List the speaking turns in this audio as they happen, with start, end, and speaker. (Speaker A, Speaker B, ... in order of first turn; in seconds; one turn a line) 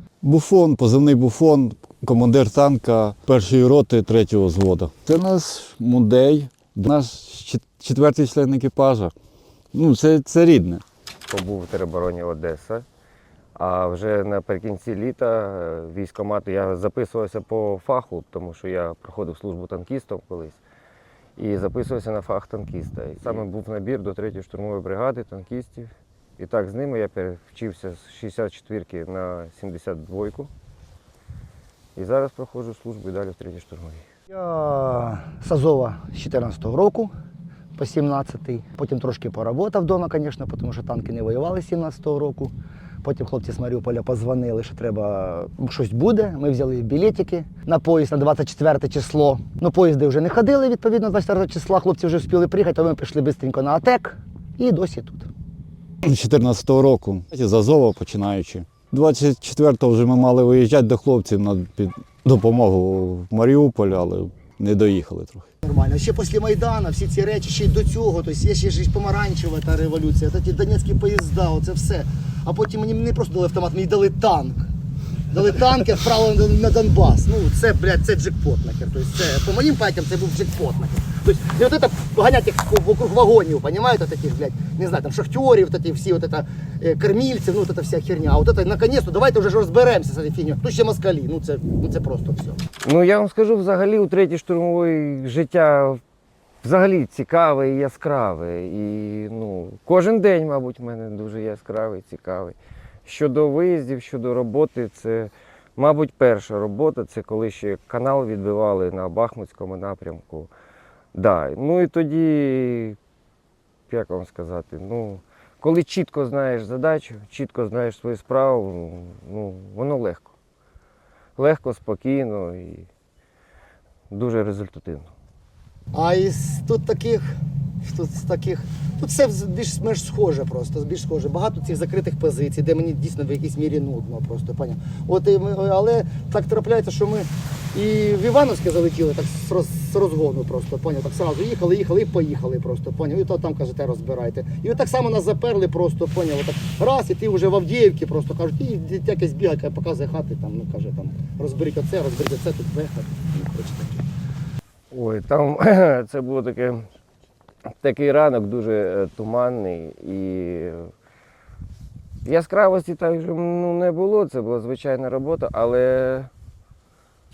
Speaker A: 0.2-9.1
Speaker A: 9.7-10.8
Speaker B: 11.3-12.9
Speaker B: 13.6-20.6
Speaker B: 21.4-30.5
Speaker B: 31.9-34.1
Speaker C: 34.3-37.1
Speaker C: 37.8-42.5
Speaker C: 43.0-55.3
Speaker A: 56.0-65.5
Speaker C: 65.6-74.7
Speaker C: 75.3-92.6
Speaker B: 92.8-96.0
Speaker B: 96.6-110.5
Speaker B: 111.1-113.0
Speaker B: 113.9-120.3
Speaker B: 121.4-122.9
Speaker B: 124.1-125.1
Speaker C: 125.9-127.3
Speaker C: 127.8-154.1
Speaker B: 154.9-156.8
Speaker B: 157.8-160.9
Speaker B: 162.2-166.3